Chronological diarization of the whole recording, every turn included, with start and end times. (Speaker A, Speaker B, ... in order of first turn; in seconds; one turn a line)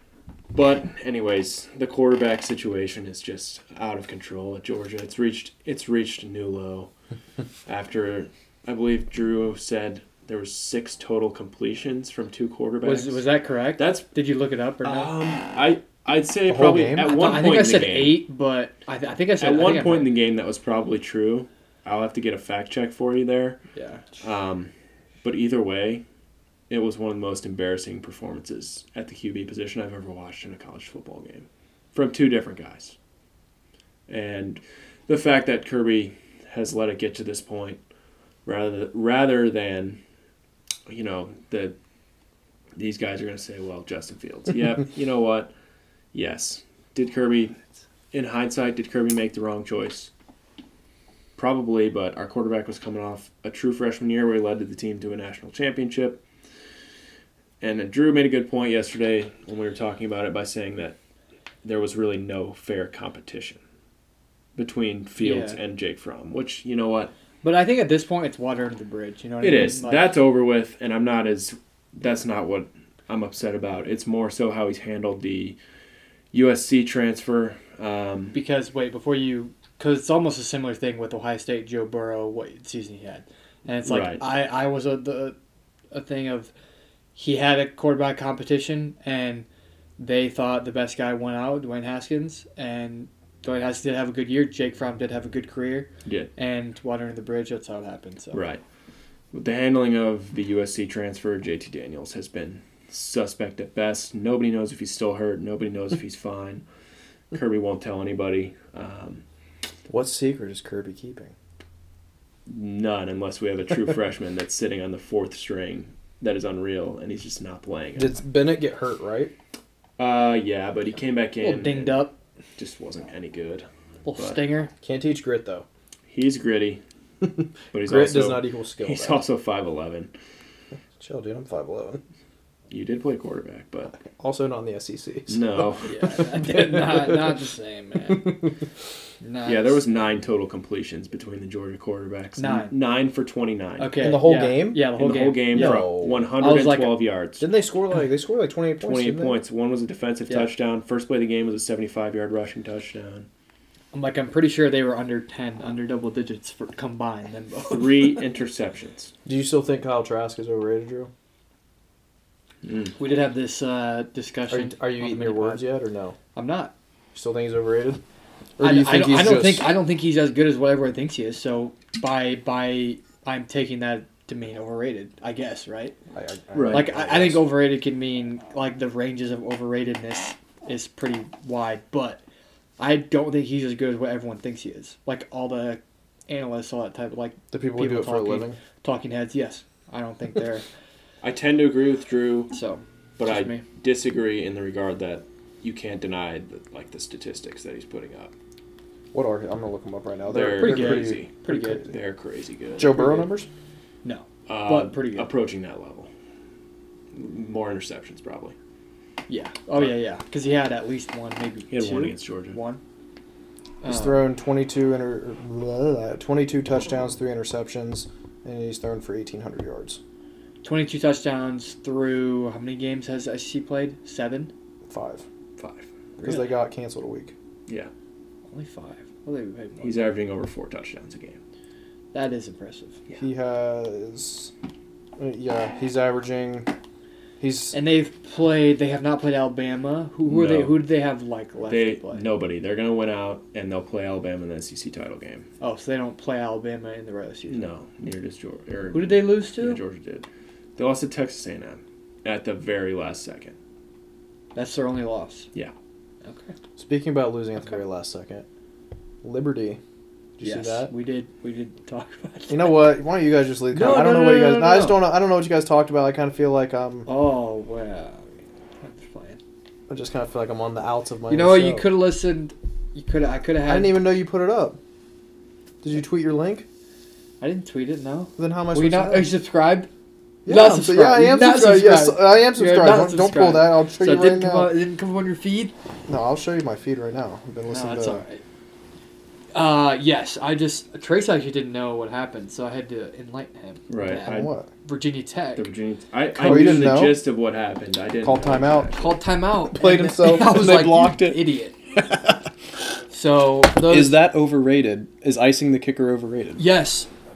Speaker A: 0.5-6.9
Speaker A: 7.7-14.1
Speaker B: 12.8-15.1
Speaker A: 14.8-18.2
Speaker C: 16.5-17.1
Speaker B: 17.0-20.1
Speaker A: 19.4-23.6
Speaker B: 23.7-24.1
Speaker A: 24.2-24.7
Speaker A: 25.2-26.0
Speaker A: 26.7-33.0
Speaker A: 34.1-37.8
Speaker A: 38.4-40.0
Speaker A: 40.9-41.8
Speaker A: 42.8-45.5
Speaker A: 46.1-47.6
Speaker A: 48.1-50.1
Speaker A: 51.4-56.2
Speaker A: 57.6-61.0
Speaker A: 61.6-63.6
Speaker A: 64.5-67.1
Speaker B: 65.2-65.6
Speaker B: 67.4-70.1
Speaker A: 69.4-75.6
Speaker A: 76.3-78.4
Speaker B: 78.3-85.3
Speaker A: 83.8-84.2
Speaker B: 85.9-86.5
Speaker B: 87.1-89.5
Speaker B: 90.0-98.4
Speaker A: 96.0-96.3
Speaker A: 98.3-98.6
Speaker A: 99.3-106.6
Speaker A: 107.3-109.2
Speaker C: 109.9-111.3
Speaker A: 112.5-118.2
Speaker C: 118.0-119.3
Speaker A: 120.0-122.0
Speaker B: 121.4-122.2
Speaker A: 122.6-124.4
Speaker B: 124.0-124.7
Speaker C: 124.8-125.7
Speaker A: 126.1-126.8
Speaker C: 127.2-129.2
Speaker A: 127.7-130.1
Speaker C: 131.0-132.0
Speaker A: 132.7-133.9
Speaker C: 134.0-135.7
Speaker A: 135.3-136.0
Speaker B: 135.8-138.3
Speaker C: 136.4-137.2
Speaker C: 138.1-138.5
Speaker B: 139.2-139.8
Speaker A: 139.4-143.9
Speaker B: 142.4-142.7
Speaker B: 143.8-147.0
Speaker C: 144.0-144.9
Speaker A: 144.9-147.5
Speaker C: 145.5-146.2
Speaker C: 147.4-149.4
Speaker A: 148.8-153.3
Speaker B: 153.9-158.2
Speaker A: 157.6-159.1
Speaker C: 159.2-161.1
Speaker A: 162.6-162.9
Speaker B: 163.0-165.7
Speaker C: 164.5-166.2
Speaker B: 166.3-166.7
Speaker C: 167.1-168.0
Speaker C: 168.6-169.7
Speaker B: 168.6-176.0
Speaker C: 176.1-177.4
Speaker A: 176.5-176.9
Speaker B: 176.7-182.2
Speaker B: 182.8-190.6
Speaker C: 187.5-188.6
Speaker A: 191.2-192.5
Speaker B: 192.5-193.6
Speaker A: 193.2-198.3
Speaker C: 199.1-201.9
Speaker A: 200.3-203.1
Speaker B: 200.6-201.8
Speaker C: 202.8-203.5
Speaker B: 202.9-203.2
Speaker B: 204.0-205.3
Speaker A: 204.5-206.1
Speaker A: 207.1-208.6
Speaker B: 209.3-212.8
Speaker A: 211.7-212.6
Speaker B: 213.8-214.2
Speaker C: 213.8-220.0
Speaker B: 220.6-224.5
Speaker C: 224.9-225.2
Speaker A: 225.6-225.9
Speaker B: 226.2-226.6
Speaker C: 226.2-227.3
Speaker B: 228.5-230.1
Speaker A: 229.8-231.4
Speaker B: 232.1-233.0
Speaker C: 233.2-234.5
Speaker C: 235.2-236.7
Speaker C: 237.4-237.8
Speaker B: 237.7-242.2
Speaker A: 240.2-240.8
Speaker A: 241.7-245.5
Speaker B: 245.6-247.7
Speaker A: 247.5-253.6
Speaker B: 248.9-249.8
Speaker B: 254.5-255.5
Speaker B: 256.2-256.5
Speaker C: 256.8-258.4
Speaker C: 259.2-259.8
Speaker C: 260.4-260.9
Speaker B: 260.4-262.8
Speaker C: 262.5-267.1
Speaker B: 263.7-265.0
Speaker B: 267.1-269.4
Speaker C: 269.9-271.9
Speaker B: 271.3-274.0
Speaker C: 273.6-274.8
Speaker C: 275.8-276.7
Speaker B: 277.4-279.9
Speaker C: 278.4-279.3
Speaker C: 280.4-284.7
Speaker B: 280.5-285.7
Speaker C: 286.1-288.2
Speaker B: 287.7-288.4
Speaker B: 289.5-295.7
Speaker A: 293.9-294.5
Speaker C: 294.2-294.7
Speaker A: 295.6-299.2
Speaker B: 296.3-297.0
Speaker C: 296.4-297.2
Speaker C: 298.2-298.9
Speaker B: 298.9-301.7
Speaker C: 299.7-302.4
Speaker B: 303.1-304.2
Speaker C: 303.8-306.7
Speaker B: 306.6-307.1